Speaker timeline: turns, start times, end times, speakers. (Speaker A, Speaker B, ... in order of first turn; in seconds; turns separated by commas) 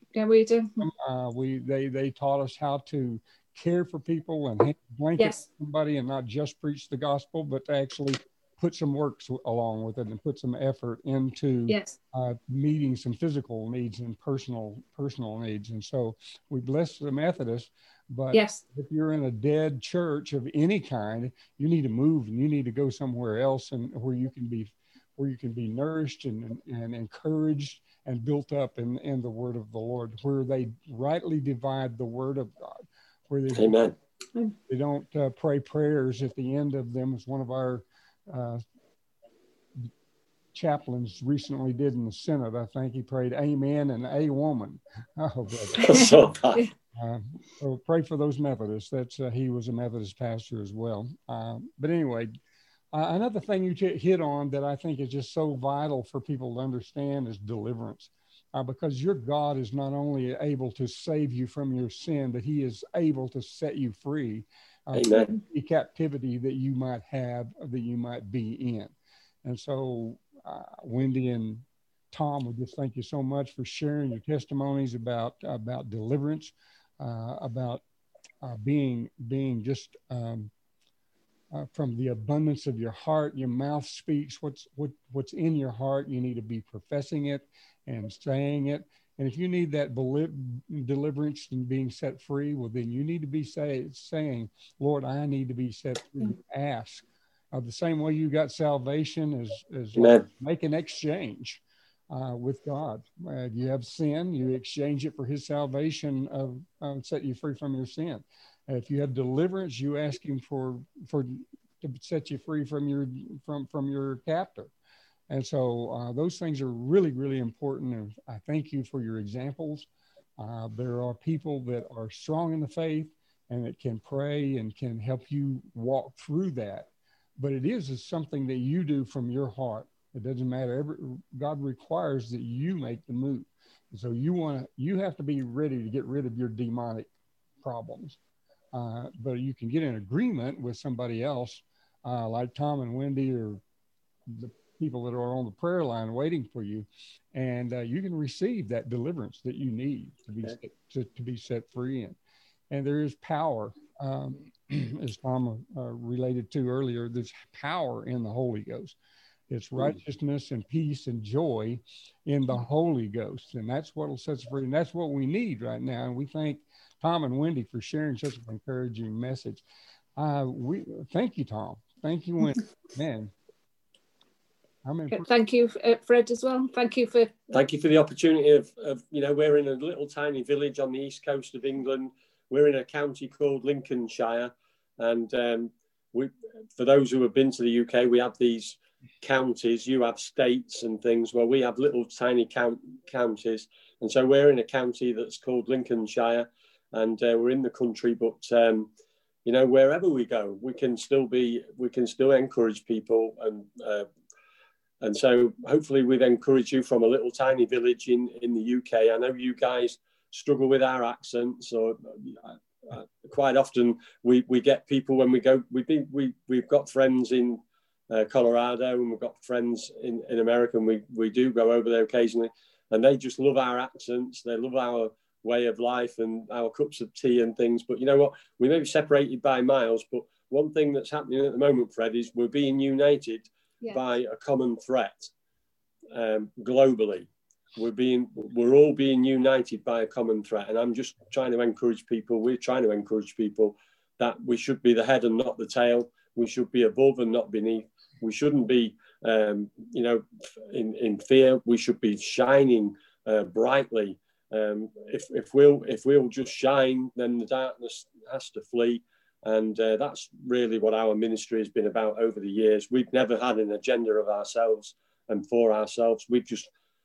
Speaker A: 0.1-0.8, Speaker B: 0.8-33.8, Speaker A: 5.2-5.4, Speaker A: 11.7-12.0, Speaker A: 18.3-18.6, Speaker C: 33.5-34.0, Speaker B: 34.7-38.6, Speaker B: 40.5-45.9, Speaker C: 45.8-46.6, Speaker A: 45.8-46.7, Speaker B: 46.9-52.4, Speaker B: 52.9-77.8, Speaker C: 65.0-65.3, Speaker B: 78.4-80.5, Speaker B: 81.5-114.7, Speaker C: 100.0-100.2, Speaker B: 115.3-119.9, Speaker B: 120.4-137.1, Speaker B: 137.6-138.2, Speaker B: 138.7-143.6, Speaker B: 144.3-152.2, Speaker B: 152.7-159.0, Speaker B: 159.5-169.6, Speaker B: 170.2-173.3, Speaker B: 174.8-175.3, Speaker A: 175.1-177.3, Speaker C: 177.5-198.9, Speaker C: 199.4-204.1, Speaker C: 205.0-235.3, Speaker C: 236.1-266.7